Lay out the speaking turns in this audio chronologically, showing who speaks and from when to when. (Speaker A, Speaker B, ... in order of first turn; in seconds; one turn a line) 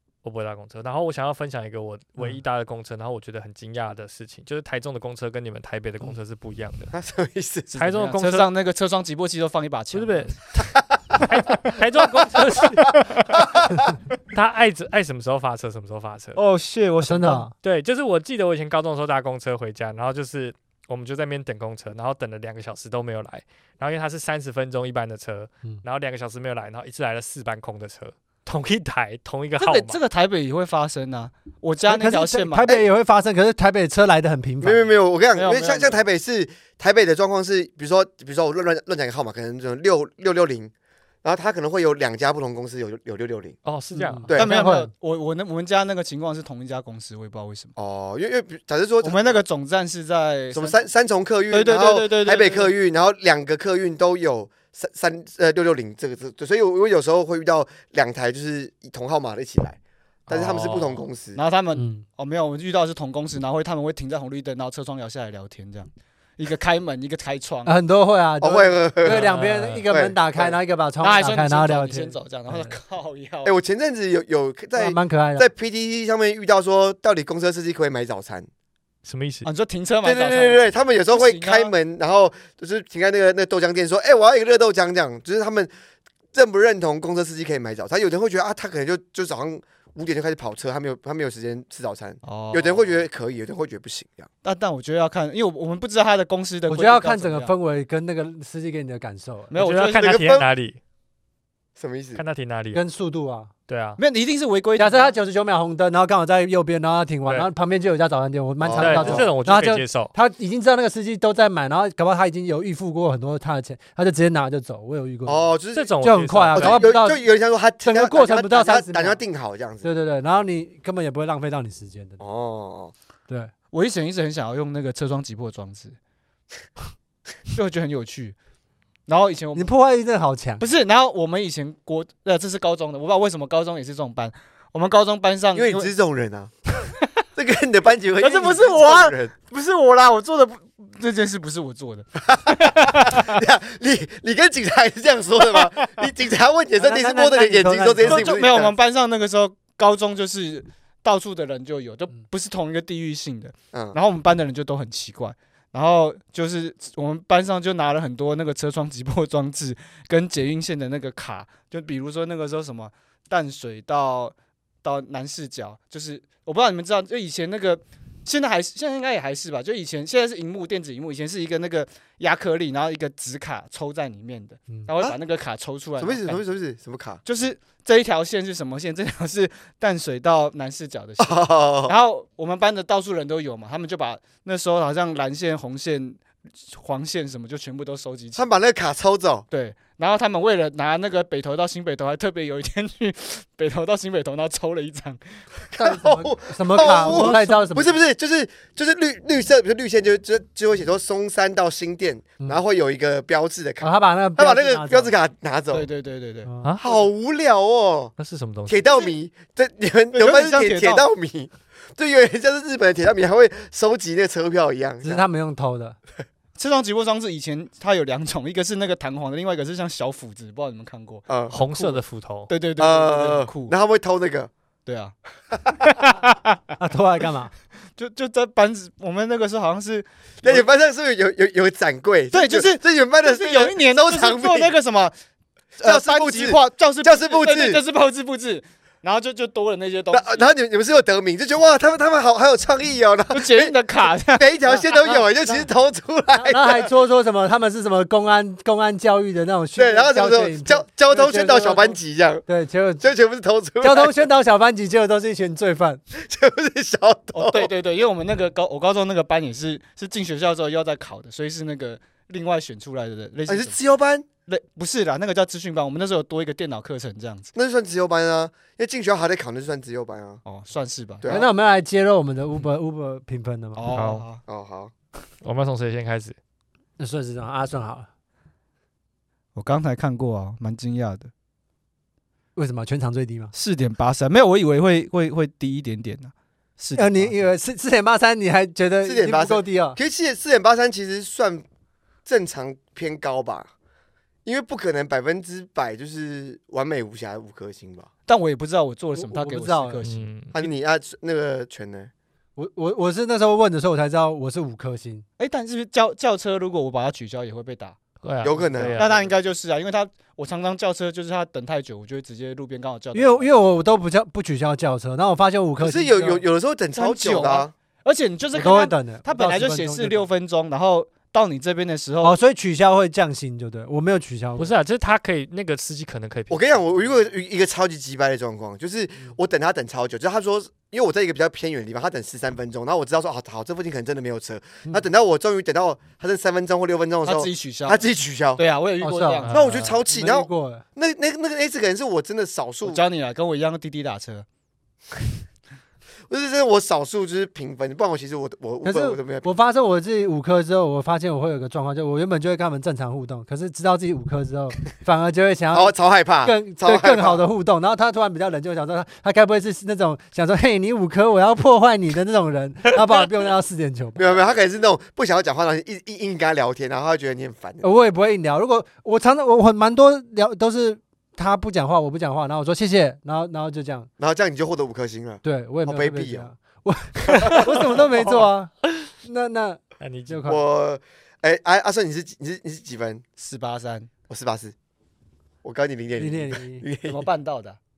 Speaker A: 0.2-6.9
Speaker B: 6.9-7.7
Speaker C: 7.7-10.3
Speaker A: 7.7-8.5
Speaker A: 9.9-13.5
Speaker B: 10.6-11.3
Speaker B: 12.4-13.9
Speaker A: 14.3-16.4
Speaker C: 16.4-17.5
Speaker D: 17.0-17.5
Speaker A: 17.6-30.0
Speaker C: 29.6-32.8
Speaker D: 31.9-34.9
Speaker B: 34.6-40.7
Speaker C: 35.3-36.0
Speaker B: 41.2-43.6
Speaker A: 43.6-44.3
Speaker D: 44.0-44.9
Speaker C: 44.3-47.7
Speaker B: 47.8-49.4
Speaker C: 49.0-50.8
Speaker B: 50.5-61.4
Speaker C: 51.5-52.7
Speaker A: 60.3-61.0
Speaker C: 61.3-67.7
Speaker D: 61.7-62.0
Speaker D: 67.7-72.8
Speaker B: 68.4-69.3
Speaker A: 69.1-69.9
Speaker B: 69.9-70.5
Speaker C: 71.0-73.5
Speaker B: 73.4-78.5
Speaker D: 74.8-75.5
Speaker A: 79.0-79.5
Speaker C: 79.4-81.7
Speaker B: 80.0-85.7
Speaker B: 86.3-94.3
Speaker C: 92.2-93.0
Speaker C: 94.4-97.5
Speaker D: 96.7-99.5
Speaker C: 99.5-100.2
Speaker A: 99.5-100.8
Speaker B: 99.9-100.5
Speaker B: 101.8-102.2
Speaker A: 102.2-102.8
Speaker D: 102.7-103.5
Speaker A: 103.7-104.0
Speaker C: 104.0-105.1
Speaker D: 104.8-115.5
Speaker B: 108.6-109.3
Speaker A: 108.8-110.1
Speaker B: 115.2-115.9
Speaker A: 115.7-116.8
Speaker D: 116.0-117.2
Speaker B: 116.5-119.8
Speaker D: 117.8-119.2
Speaker D: 119.8-122.2
Speaker B: 122.2-122.9
Speaker C: 123.7-126.0
Speaker C: 127.5-128.3
Speaker C: 129.1-129.7
Speaker D: 129.5-130.6
Speaker C: 130.6-135.9
Speaker B: 135.5-136.5
Speaker B: 137.3-139.3
Speaker C: 138.2-143.4
Speaker B: 142.2-148.7
Speaker C: 145.4-146.1
Speaker D: 146.8-148.3
Speaker C: 148.1-176.4
Speaker B: 176.0-177.2
Speaker C: 177.2-188.4
Speaker B: 181.2-181.9
Speaker B: 188.3-189.4
Speaker C: 189.5-195.2
Speaker B: 195.7-205.9
Speaker D: 195.8-198.0
Speaker C: 197.0-197.4
Speaker D: 203.8-205.1
Speaker C: 205.7-206.9
Speaker D: 206.4-206.7
Speaker B: 206.8-208.1
Speaker A: 208.2-208.9
Speaker B: 208.7-215.2
Speaker C: 210.1-211.0
Speaker D: 215.0-216.0
Speaker C: 216.6-223.7
Speaker B: 221.3-221.6
Speaker A: 221.5-222.5
Speaker B: 222.8-224.5
Speaker C: 224.8-225.1
Speaker C: 225.7-226.6
Speaker D: 226.8-227.5
Speaker C: 228.0-230.7
Speaker B: 230.4-234.7
Speaker C: 232.3-235.1
Speaker C: 235.8-240.5
Speaker B: 235.8-237.8
Speaker B: 240.1-243.8
Speaker C: 243.3-244.6
Speaker B: 244.3-246.9
Speaker D: 244.7-245.6
Speaker D: 246.3-251.9
Speaker B: 249.8-252.4
Speaker D: 252.5-253.1
Speaker B: 253.0-254.2
Speaker D: 253.8-256.0
Speaker B: 256.1-257.7
Speaker C: 257.3-263.8
Speaker B: 263.5-264.3
Speaker C: 264.5-267.5
Speaker B: 267.5-270.4
Speaker C: 270.4-271.5
Speaker B: 271.2-271.5
Speaker D: 271.3-273.8
Speaker C: 273.8-274.4
Speaker A: 273.9-274.3
Speaker B: 274.5-274.9
Speaker A: 275.4-276.4
Speaker D: 277.0-278.1
Speaker C: 279.5-281.3
Speaker D: 282.6-283.5
Speaker C: 283.5-287.4
Speaker D: 286.9-290.0
Speaker B: 289.0-291.6
Speaker B: 292.2-293.7
Speaker B: 294.4-298.1
Speaker C: 298.3-300.3
Speaker D: 299.1-300.0
Speaker A: 300.0-300.6
Speaker B: 300.5-302.1
Speaker D: 302.6-305.2
Speaker C: 305.4-307.9
Speaker A: 308.2-309.3
Speaker B: 308.4-309.1
Speaker C: 308.7-313.5
Speaker D: 313.1-316.4
Speaker B: 315.8-317.7
Speaker C: 316.9-322.4
Speaker D: 318.5-320.2
Speaker D: 322.2-324.7
Speaker A: 324.6-326.9
Speaker B: 326.5-338.6
Speaker C: 337.2-338.0
Speaker C: 338.6-339.6
Speaker D: 339.0-339.5
Speaker A: 339.4-340.0
Speaker B: 339.5-343.0
Speaker D: 340.1-340.8
Speaker C: 342.8-344.4
Speaker B: 346.3-349.5
Speaker D: 348.8-364.2
Speaker B: 355.7-357.4
Speaker B: 364.1-367.8
Speaker D: 367.8-374.1
Speaker B: 374.2-376.5
Speaker D: 375.4-378.7
Speaker B: 377.2-378.4
Speaker D: 379.2-380.6
Speaker A: 380.0-380.6
Speaker B: 380.4-383.2
Speaker C: 383.4-384.1
Speaker B: 384.3-384.7
Speaker B: 385.6-387.3
Speaker D: 386.2-386.8
Speaker C: 387.0-387.8